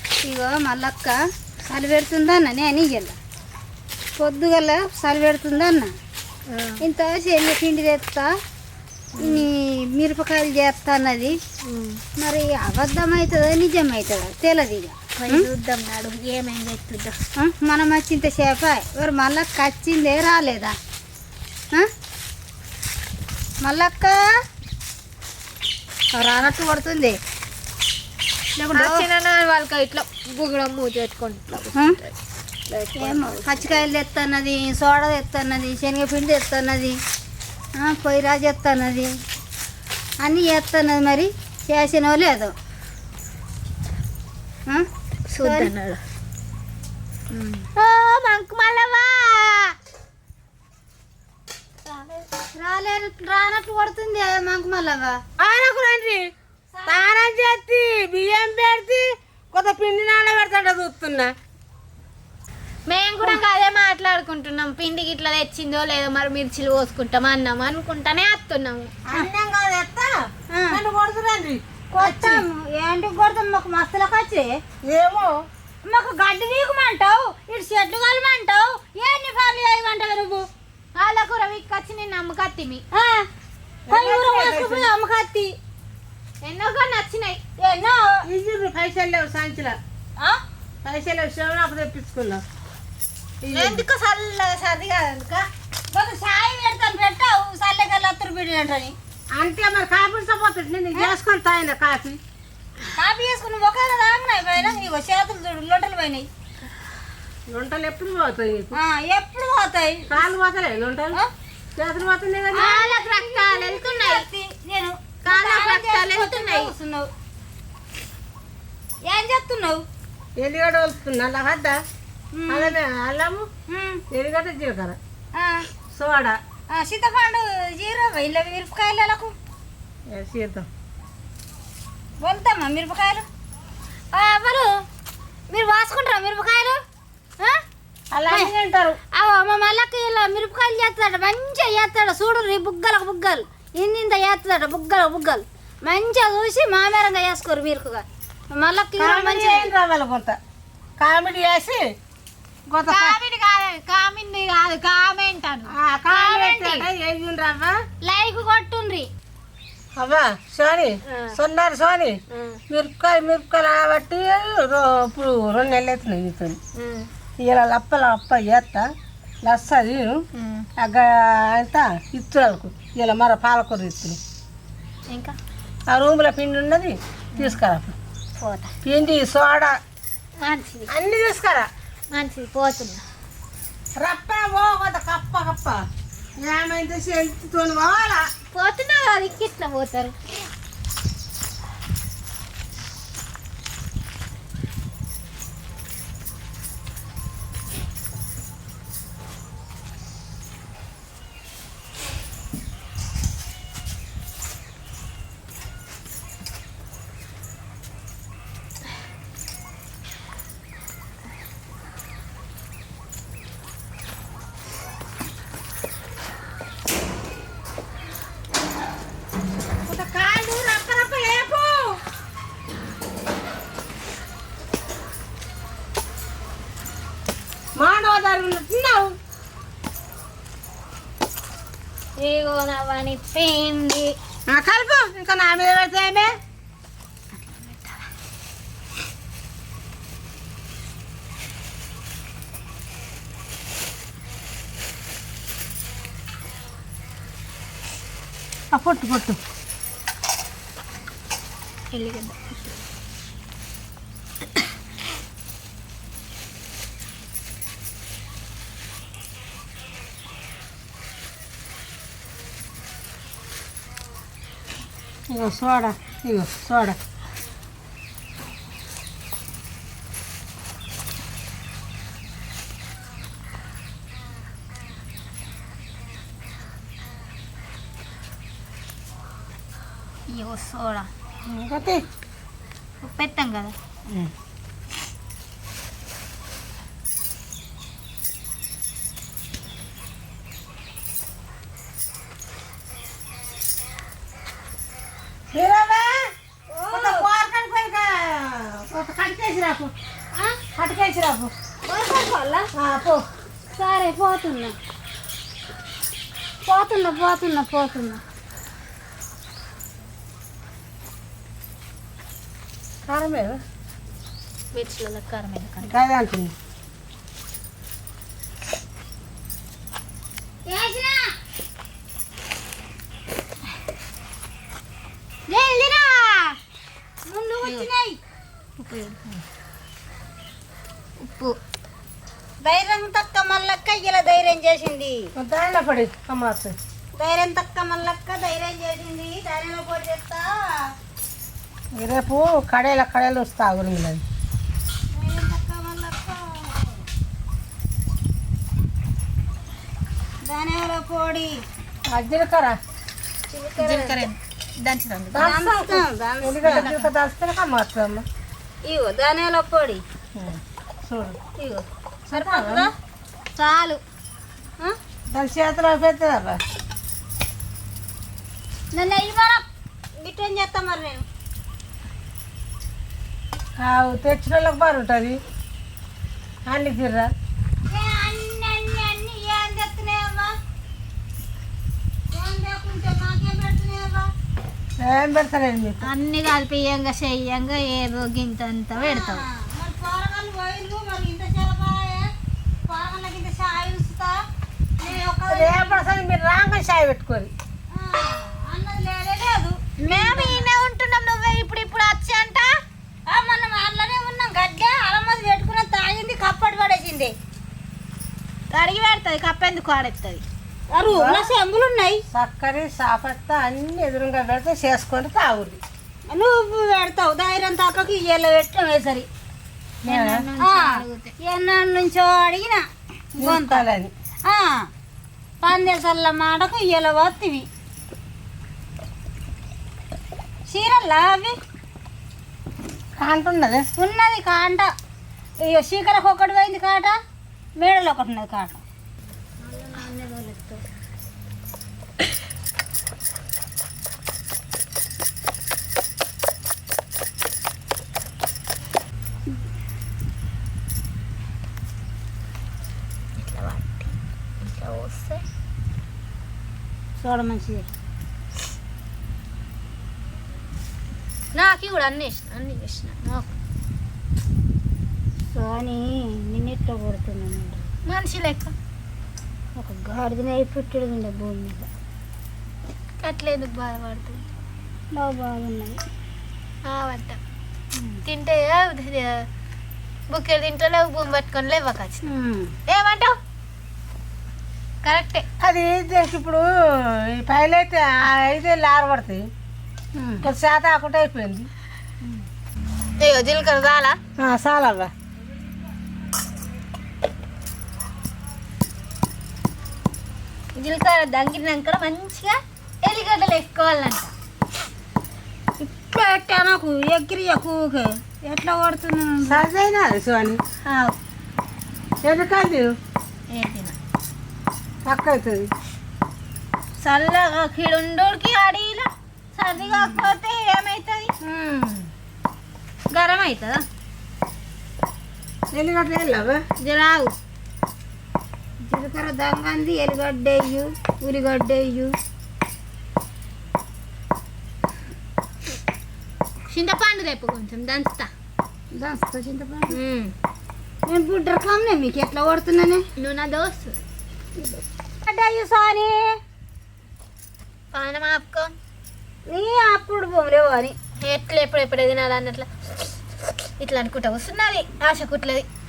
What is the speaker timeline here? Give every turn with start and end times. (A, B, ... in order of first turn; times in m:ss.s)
0:00.2-0:03.2 A
0:04.2-0:05.9 A
0:06.5-0:06.8 B
0:06.8-0:08.3 A
0:09.1-0:09.4 B
0:09.2-0:11.4 A
0:11.6-0:12.0 B
0:12.2-0:15.5 A
0:15.2-0:17.2 B
0:17.4-0:20.7 A
0:23.6-0:24.2 A
0:26.1-0:27.2 A
0:28.6-0:32.2 B
0:28.7-0:29.1 A
0:31.7-0:32.0 A
0:32.7-0:33.9 B
0:33.0-0:37.0 A
0:37.8-0:39.1 A
0:40.2-0:42.5 A
0:45.3-0:46.0 B
0:45.4-0:45.7 A
0:47.3-0:49.7 B
0:51.8-0:52.3 B
0:52.6-0:55.2 A
0:55.4-0:56.3 C
0:56.7-0:57.1 A
0:56.8-1:01.3 C
1:02.9-1:09.3 B
1:09.1-1:12.4 C
1:10.5-1:10.8 A
1:11.9-1:14.6 A
1:14.8-1:15.4 C
1:15.8-1:20.4 A
1:20.9-1:22.8 B
1:22.9-1:23.3 A
1:23.9-1:24.9 C
1:23.9-1:25.5 A
1:26.4-1:27.4 B
1:27.6-1:28.2 A
1:28.3-1:29.8 C
1:30.8-1:32.4 C
1:33.4-1:33.8 C
1:33.5-1:35.5 B
1:35.9-1:38.9 A
1:39.4-1:42.2 C
1:43.0-1:46.3 A
1:47.5-1:48.8 C
1:48.7-1:50.2 A
1:50.1-1:51.2 C
1:51.8-1:52.7 C
1:52.5-1:57.1 A
1:52.6-1:54.2 B
1:55.2-1:56.7 B
1:59.0-1:59.8 A
2:00.4-2:01.8 C
2:02.3-2:02.8 A
2:02.5-2:03.5 C
2:03.7-2:04.0 A
2:04.1-2:05.0 C
2:05.4-2:05.7 A
2:05.9-2:06.4 C
2:06.7-2:09.3 A
2:10.1-2:10.7 C
2:12.2-2:13.2 A
2:14.1-2:14.8 A
2:15.5-2:16.8 A
2:18.1-2:19.0 C
2:19.1-2:29.7 A
2:29.0-2:30.4 C
2:31.0-2:31.9 C
2:32.7-2:33.2 C
2:32.9-2:36.9 B
2:35.7-2:37.8 C
2:36.3-2:36.7 A
2:38.0-2:39.1 A
2:39.9-2:46.6 C
2:41.0-2:41.4 B
2:42.3-2:42.6 B
2:46.7-2:47.1 B
2:47.4-2:48.9 C
2:49.4-2:50.2 C
2:50.3-2:50.7 B
2:50.8-2:54.2 C
2:55.1-2:55.4 B
2:55.9-2:58.0 C
2:57.3-2:57.6 B
2:58.4-2:58.7 B
2:58.8-2:59.8 C
3:00.4-3:00.9 B
3:00.9-3:01.7 C
3:02.1-3:03.0 B
3:04.0-3:05.8 C
3:06.4-3:08.3 C
3:08.5-3:10.1 B
3:39.8-3:42.0 C
3:47.8-3:49.1 C
3:52.2-3:54.1 B
3:54.5-3:56.3 C
4:08.7-4:09.4 C
4:11.9-4:12.8 B
4:25.3-4:27.0 C
4:40.3-4:41.1 B
4:41.4-4:42.0 C
4:43.0-4:43.7 B
4:55.5-4:56.3 C
4:56.7-4:57.3 A
4:56.9-4:59.9 C
5:00.3-5:00.6 A
5:00.7-5:01.5 C
5:01.8-5:02.7 A
5:02.7-5:03.2 C
5:03.7-5:04.7 A
5:06.6-5:08.2 A
5:13.0-5:13.6 C
5:14.7-5:15.9 B
5:15.8-5:16.5 C
5:20.7-5:21.3 A
5:25.5-5:26.6 A
5:27.3-5:28.2 A
5:28.8-5:29.2 B
5:31.2-5:31.6 B
5:32.6-5:35.3 A
5:35.4-5:36.7 C
5:37.2-5:40.9 A
5:41.9-5:44.2 C
5:45.1-5:47.0 A
5:50.4-5:51.6 A
5:52.1-5:52.8 C
5:53.5-5:54.3 A
5:53.7-5:55.5 B
5:55.3-5:58.2 C
5:55.4-5:56.9 A
5:56.6-5:57.1 B
5:58.8-6:00.0 A
6:00.3-6:01.4 C
6:01.6-6:02.9 A
6:02.3-6:02.9 C
6:03.6-6:04.0 A
6:05.3-6:06.6 C
6:08.9-6:09.6 A
6:10.2-6:11.2 A
6:13.8-6:15.4 C
6:16.6-6:17.3 C
6:17.9-6:20.5 A
6:22.3-6:24.3 A
6:25.0-6:26.0 C
6:26.0-6:29.4 B
6:28.9-6:32.3 A
6:32.9-6:34.4 A
6:35.0-6:36.0 A
6:35.5-6:37.5 C
6:37.9-6:40.6 A
6:40.0-6:42.8 B
6:43.3-6:47.3 A
6:48.7-6:50.4 B
6:50.9-6:52.2 A
6:51.1-6:51.5 C
6:52.3-6:55.8 C
6:56.3-6:59.3 A
7:00.0-7:00.5 C
7:00.0-7:01.3 B
7:00.6-7:02.8 A
7:03.4-7:03.8 A
7:03.4-7:04.1 C
7:04.5-7:04.9 A
7:05.6-7:07.7 A
7:10.7-7:11.6 A
7:13.2-7:13.9 C
7:14.0-7:14.9 A
7:15.6-7:17.2 A
7:17.8-7:18.8 A
7:19.6-7:20.8 A
7:33.4-7:35.4 B
7:37.2-7:37.9 A
7:41.5-7:43.5 B
7:45.5-7:47.8 A
7:48.1-7:48.7 B
7:49.8-7:51.9 A
7:53.2-7:54.4 B
7:55.1-7:56.0 A
7:56.8-7:57.4 B
7:57.9-7:58.2 A
7:58.2-7:59.4 B
8:00.3-8:02.2 B
8:02.2-8:02.7 A
8:02.9-8:03.4 B
8:05.0-8:05.4 B
8:05.6-8:09.5 C
8:10.2-8:10.5 A
8:10.4-8:11.7 C
8:13.2-8:14.2 B
8:14.4-8:15.1 C
8:20.7-8:24.3 B
8:25.8-8:29.6 A
8:29.4-8:30.6 C
8:30.8-8:31.2 B
8:32.2-8:32.9 C
8:33.5-8:34.0 B
8:35.0-8:35.7 C
8:37.0-8:41.3 B
8:39.8-8:40.3 A
8:41.4-8:42.1 A
8:43.1-8:43.8 B
8:45.7-8:46.6 C
8:46.8-8:47.3 B
8:48.8-8:52.2 A
8:56.7-8:58.3 B
8:58.9-9:00.0 A
8:59.9-9:00.3 B
9:01.0-9:03.0 A
9:03.2-9:04.0 B
9:05.2-9:06.4 A
9:07.9-9:08.7 B
9:09.5-9:10.9 A
9:11.2-9:13.1 B
9:13.7-9:15.6 B